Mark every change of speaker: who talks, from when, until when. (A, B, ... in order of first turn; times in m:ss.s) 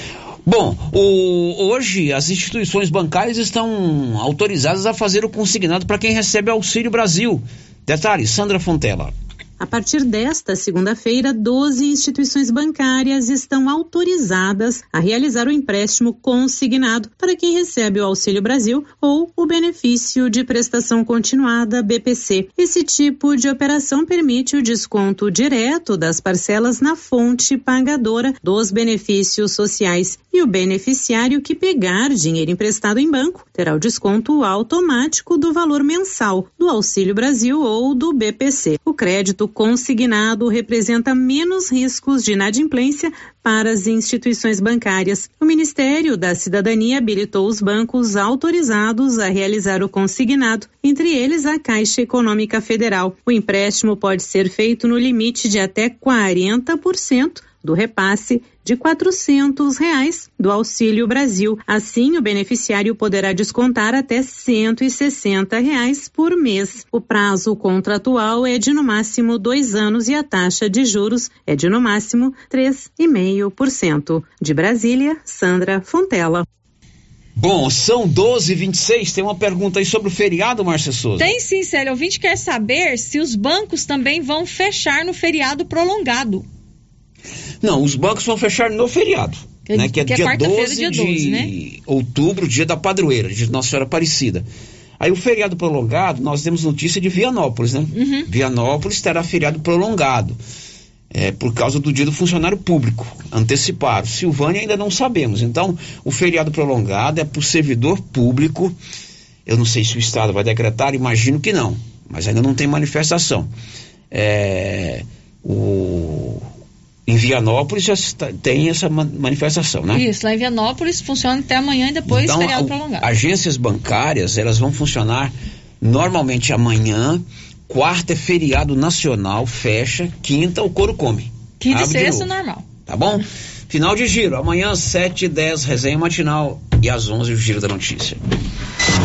0:00.4-0:09.1 A
0:09.6-1:16.4 B
1:17.4-1:21.3 A
1:21.2-1:26.4 C
1:27.6-1:34.4 A
1:29.7-1:31.5 C
1:35.0-1:40.4 A
1:37.9-1:38.3 C
1:41.1-1:48.7 A
1:49.4-1:53.5 A
1:54.1-1:56.4 A
1:57.1-2:00.0 A
1:59.9-2:03.1 C
2:02.1-2:12.3 A
2:11.6-2:12.6 C
2:12.9-2:18.2 A